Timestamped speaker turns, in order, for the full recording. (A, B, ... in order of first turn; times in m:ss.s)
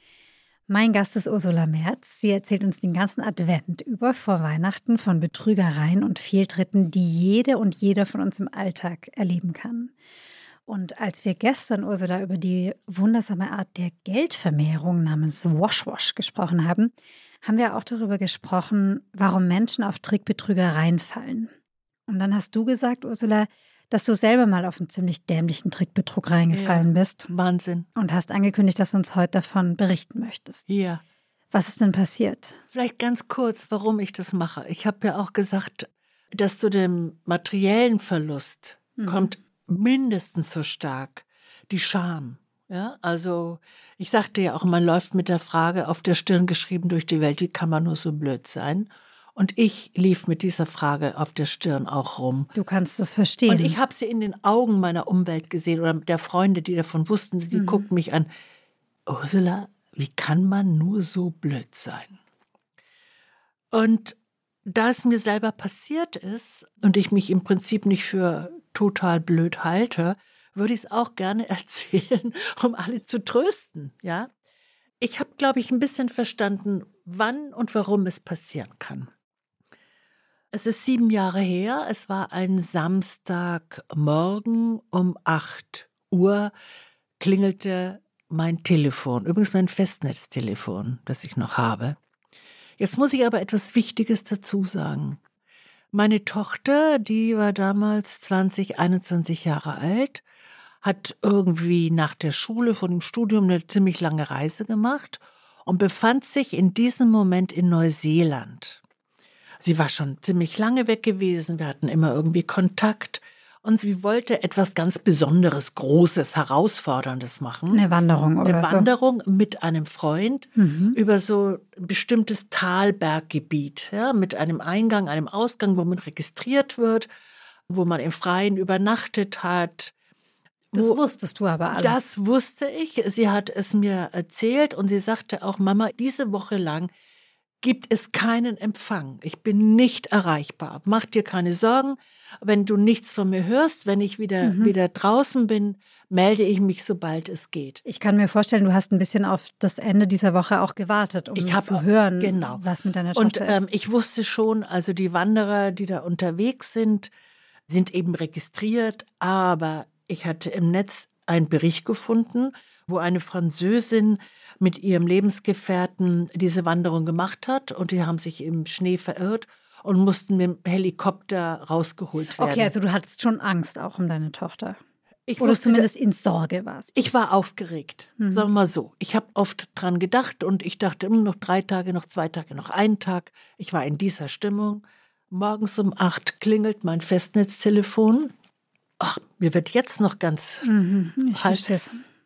0:00.7-0:09.9 A
0:10.7-0:21.5 A
0:22.1-0:27.3 A
0:26.5-0:27.9 B
0:28.0-0:30.7 A
0:30.7-0:31.0 B
0:31.5-0:32.6 A
0:32.7-0:52.5 B
0:39.0-0:39.4 A
0:52.6-0:53.8 A
0:53.5-0:58.3 B
0:57.5-0:57.9 A
0:59.1-1:02.2 B
1:03.7-1:04.2 B
1:04.7-1:14.3 B
1:15.0-1:19.1 B
1:20.5-1:26.5 B
1:27.2-1:32.0 B
1:32.8-1:35.2 B
1:35.9-1:40.2 B
1:40.8-1:48.8 B
1:49.6-1:57.8 B
1:57.7-1:58.9 A
1:58.4-2:07.1 B
2:00.6-2:01.0 A
2:07.7-2:09.9 B
2:10.7-2:11.0 B
2:10.7-2:12.0 A
2:11.7-2:16.9 B
2:17.6-2:27.8 B
2:24.4-2:24.8 A
2:27.8-2:33.7 A
2:31.4-2:32.6 B
2:33.2-2:37.1 B
2:37.7-2:52.7 B
2:52.4-2:54.8 A
2:55.3-2:55.9 B
2:55.4-2:56.9 A
2:57.0-3:08.3 B
2:58.2-2:58.5 A
3:09.0-3:10.7 B
3:10.6-3:12.0 A
3:11.3-3:11.7 B